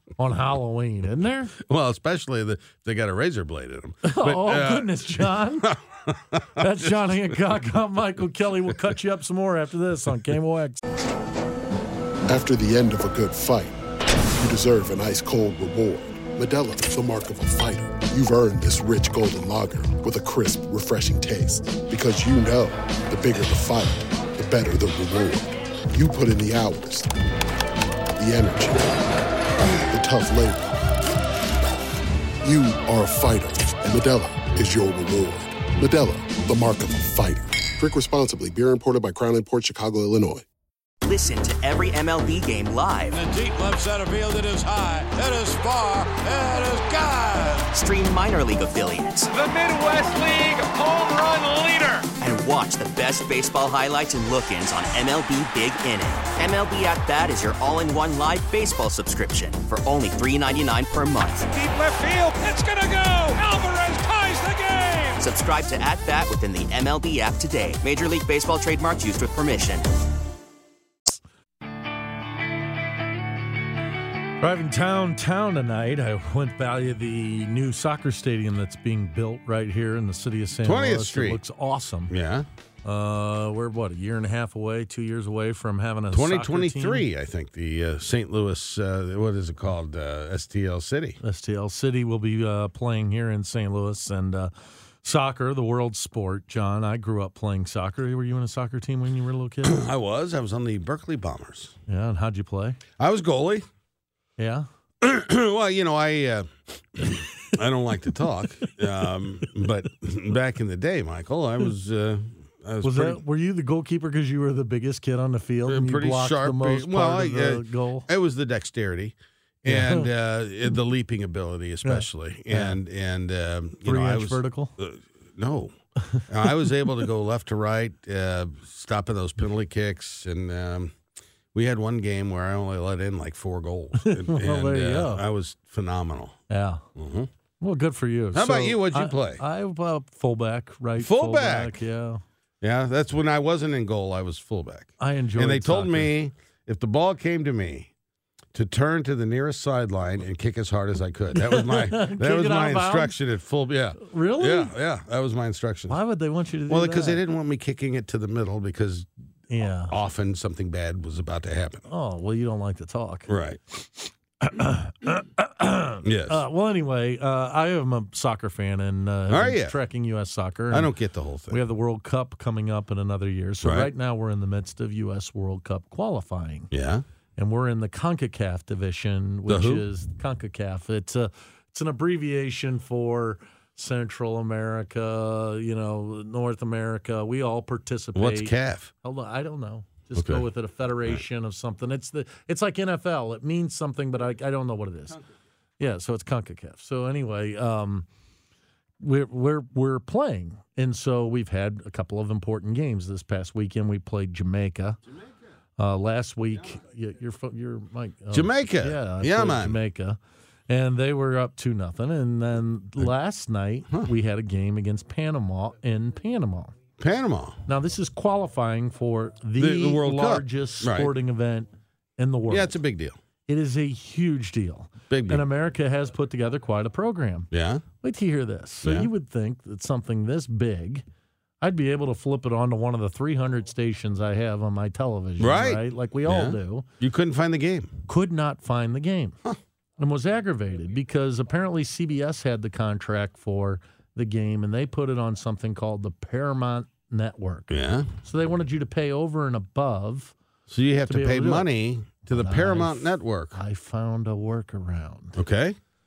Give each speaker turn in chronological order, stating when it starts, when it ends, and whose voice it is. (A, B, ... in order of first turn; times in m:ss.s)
0:00.2-0:01.5 A
0:01.6-0:07.0 B
0:04.0-0:05.7 A
0:06.6-0:10.8 A
0:12.3-0:13.8 C
0:14.4-0:27.1 C
0:28.2-0:29.1 C
0:29.8-0:30.8 C
0:32.4-0:40.4 C
0:41.0-0:43.2 D
0:43.1-0:47.7 E
0:47.7-0:49.3 D
0:49.3-0:52.1 E
0:52.2-1:01.5 D
1:01.5-1:05.2 E
1:05.2-1:09.9 D
1:14.4-1:22.1 A
1:20.6-1:21.4 B
1:22.1-1:22.5 B
1:22.8-1:27.0 A
1:26.1-1:31.2 B
1:31.2-1:39.8 A
1:39.6-1:41.8 B
1:41.9-1:42.8 A
1:43.0-1:43.7 B
1:44.4-1:44.7 A
1:45.0-1:53.2 B
1:52.8-1:58.1 A
1:55.7-2:05.7 B
1:59.7-2:00.1 A
2:01.8-2:02.8 A
2:03.8-2:04.7 A
2:06.3-2:11.0 B
2:11.5-2:16.4 B
2:14.0-2:15.2 A
2:16.5-2:16.8 A
2:17.0-2:17.3 B
2:17.6-2:22.2 A
2:18.3-2:19.4 B
2:21.0-2:21.8 B
2:22.6-2:27.9 B
2:25.0-2:26.1 A
2:28.5-2:36.0 B
2:31.3-2:33.2 A
2:34.0-2:34.7 A
2:35.9-2:37.2 A
2:36.7-2:39.1 B
2:39.5-2:39.9 A
2:39.9-2:41.8 B
2:41.9-2:43.3 A
2:43.3-2:43.6 B
2:44.4-2:50.9 A
2:46.0-2:46.4 B
2:49.3-2:49.8 B
2:50.7-2:51.6 B
2:51.5-2:56.7 A
2:53.6-2:53.9 B
2:56.7-2:57.0 B
2:57.4-3:15.2 A
2:59.5-2:59.8 B
3:08.2-3:08.9 B
3:10.2-3:10.4 B
3:15.8-3:18.1 A
3:19.0-3:25.0 A
3:25.8-3:36.7 A
3:28.3-3:29.8 B
3:37.0-3:37.6 B
3:37.7-3:42.7 A
3:39.6-3:41.1 B
3:42.5-3:43.2 B
3:43.5-3:51.0 A
3:45.1-3:45.5 B
3:47.5-3:47.9 B
3:48.8-3:49.1 B
3:51.6-3:56.9 A
3:55.4-3:57.9 B
3:58.1-3:59.4 A
4:00.0-4:07.7 A
4:07.7-4:08.1 B
4:08.2-4:10.4 A
4:10.7-4:13.6 B
4:11.1-4:11.7 A
4:12.2-4:15.4 A
4:15.4-4:15.8 B